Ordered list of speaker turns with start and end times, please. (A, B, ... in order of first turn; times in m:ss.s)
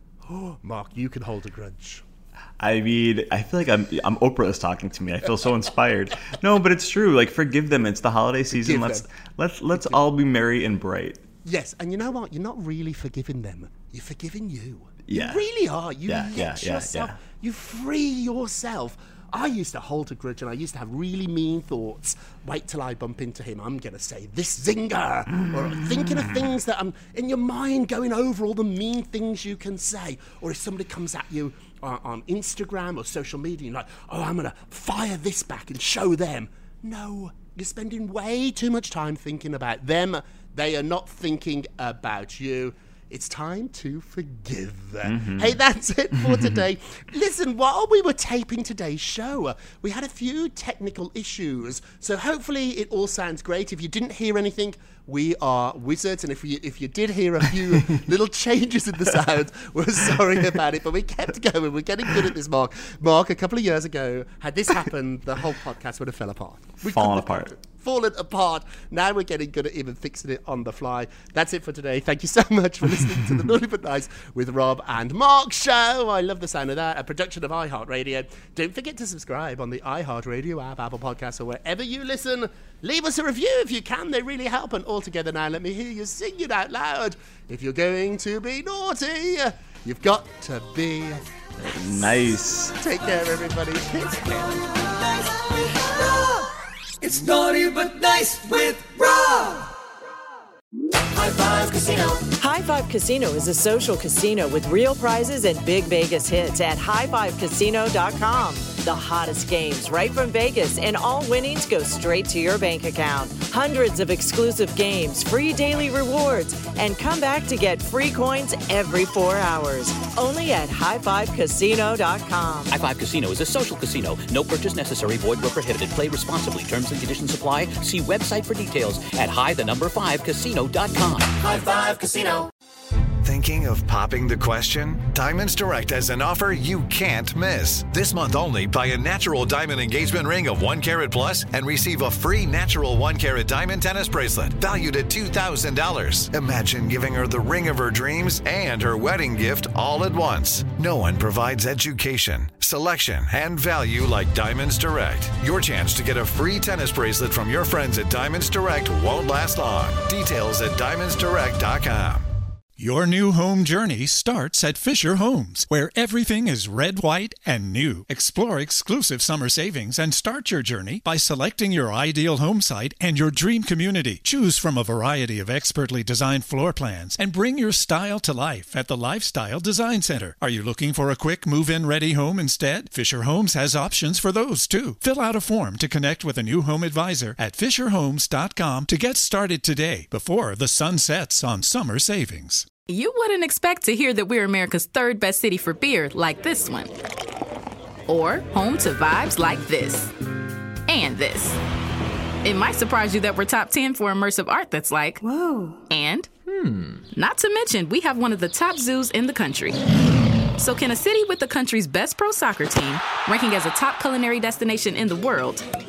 0:00.2-0:02.0 A
0:02.6-0:11.2 B
0:08.5-0:09.0 A
0:11.4-1:32.1 A
0:15.1-0:15.4 B
0:16.1-0:17.2 B
0:25.4-0:26.0 B
0:45.0-0:45.6 B
0:46.2-0:46.6 B
1:06.8-1:07.5 B
1:31.6-1:32.8 B
1:32.8-1:34.5 A
1:34.4-1:36.5 C
1:37.0-1:39.7 C
1:41.1-1:42.3 C
1:42.4-2:02.8 D
2:02.7-2:11.3 E
2:11.3-2:12.5 C
2:13.2-2:42.2 F
2:42.8-3:12.6 G
3:12.9-3:16.9 H
3:18.1-3:20.1 H
3:20.9-3:21.6 H
3:22.4-3:25.2 H
3:25.8-3:26.3 H
3:27.1-3:29.8 H
3:30.6-3:35.6 H